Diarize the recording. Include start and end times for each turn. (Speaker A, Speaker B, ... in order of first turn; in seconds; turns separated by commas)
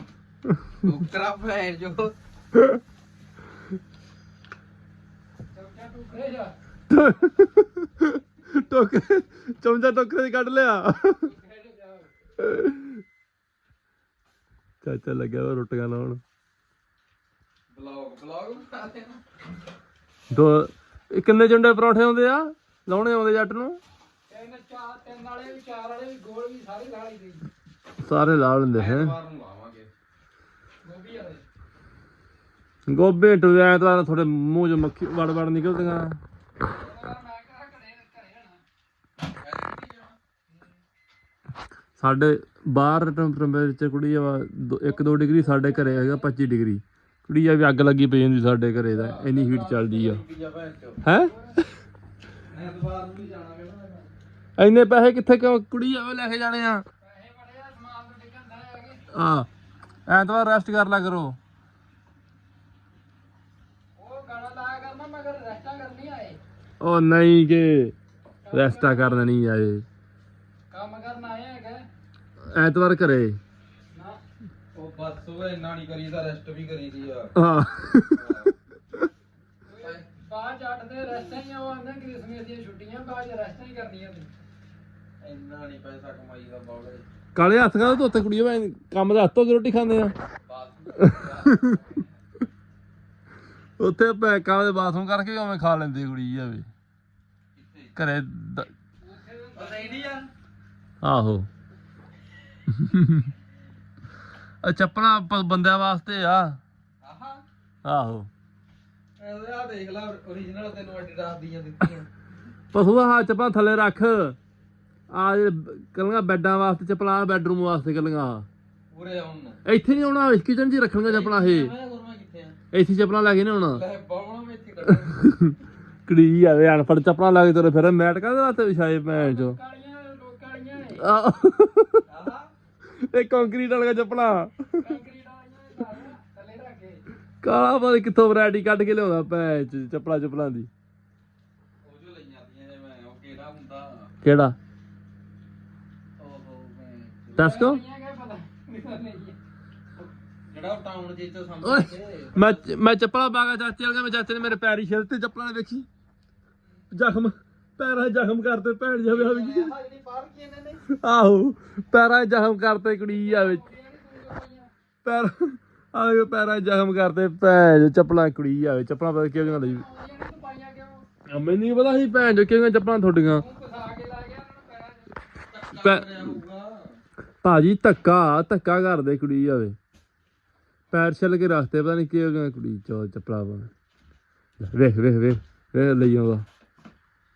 Speaker A: 0.5-0.8, Speaker B: 0.8-2.1, Speaker A: 2.5-2.8, Speaker C: 5.5-6.5, Speaker A: 6.9-11.3, Speaker C: 11.1-12.1, Speaker A: 12.4-13.0, Speaker A: 14.8-16.2, Speaker B: 17.7-19.3, Speaker A: 20.3-23.8, Speaker C: 24.3-27.5, Speaker A: 28.0-29.1, Speaker B: 28.7-29.9, Speaker C: 30.8-31.4, Speaker A: 32.9-36.2, Speaker C: 36.6-38.6, Speaker B: 39.4-40.2, Speaker A: 42.0-50.2, Speaker C: 44.9-46.3, Speaker B: 48.9-51.0, Speaker A: 51.0-51.7, Speaker C: 51.2-51.6, Speaker B: 52.5-54.1, Speaker A: 54.6-56.9, Speaker C: 57.0-59.0, Speaker A: 59.1-59.5, Speaker A: 60.1-61.4, Speaker C: 64.0-66.4, Speaker A: 66.8-68.0, Speaker C: 68.4-69.3, Speaker A: 68.5-69.8, Speaker C: 70.7-71.9, Speaker A: 72.5-73.4, Speaker C: 73.9-74.2, Speaker B: 74.7-77.4, Speaker A: 77.3-79.0, Speaker B: 78.1-78.5, Speaker C: 79.7-84.3, Speaker B: 79.8-80.1, Speaker B: 85.2-87.1, Speaker A: 87.3-90.1, Speaker B: 90.5-92.1, Speaker A: 91.0-91.8, Speaker A: 93.8-96.7, Speaker B: 97.6-98.0, Speaker A: 98.0-98.7, Speaker C: 99.0-100.2, Speaker B: 99.6-100.3, Speaker A: 101.0-101.5, Speaker A: 102.7-103.3, Speaker A: 104.6-106.6, Speaker B: 107.0-107.4, Speaker A: 107.8-108.3, Speaker B: 109.2-112.1, Speaker A: 112.7-114.4, Speaker A: 115.1-118.5, Speaker B: 118.9-119.6, Speaker A: 119.7-121.7, Speaker B: 121.0-122.6, Speaker A: 122.7-123.8, Speaker B: 123.7-125.3, Speaker A: 125.1-129.6, Speaker C: 129.1-131.1, Speaker A: 131.0-132.1, Speaker B: 132.1-132.5, Speaker A: 133.0-134.9, Speaker C: 134.8-137.0, Speaker A: 137.4-140.7, Speaker B: 141.8-144.1, Speaker A: 144.2-144.6, Speaker B: 146.2-147.6, Speaker A: 147.4-147.8, Speaker C: 147.4-149.4, Speaker B: 150.0-152.7, Speaker A: 151.6-155.9, Speaker A: 156.9-159.7, Speaker B: 159.1-160.8, Speaker A: 160.9-163.6, Speaker C: 163.1-164.7, Speaker A: 165.1-169.8, Speaker C: 169.3-171.1, Speaker A: 171.3-173.4, Speaker C: 173.3-175.2, Speaker B: 175.5-177.0, Speaker A: 175.7-176.4, Speaker A: 177.4-179.8, Speaker A: 180.9-183.7, Speaker A: 184.6-186.4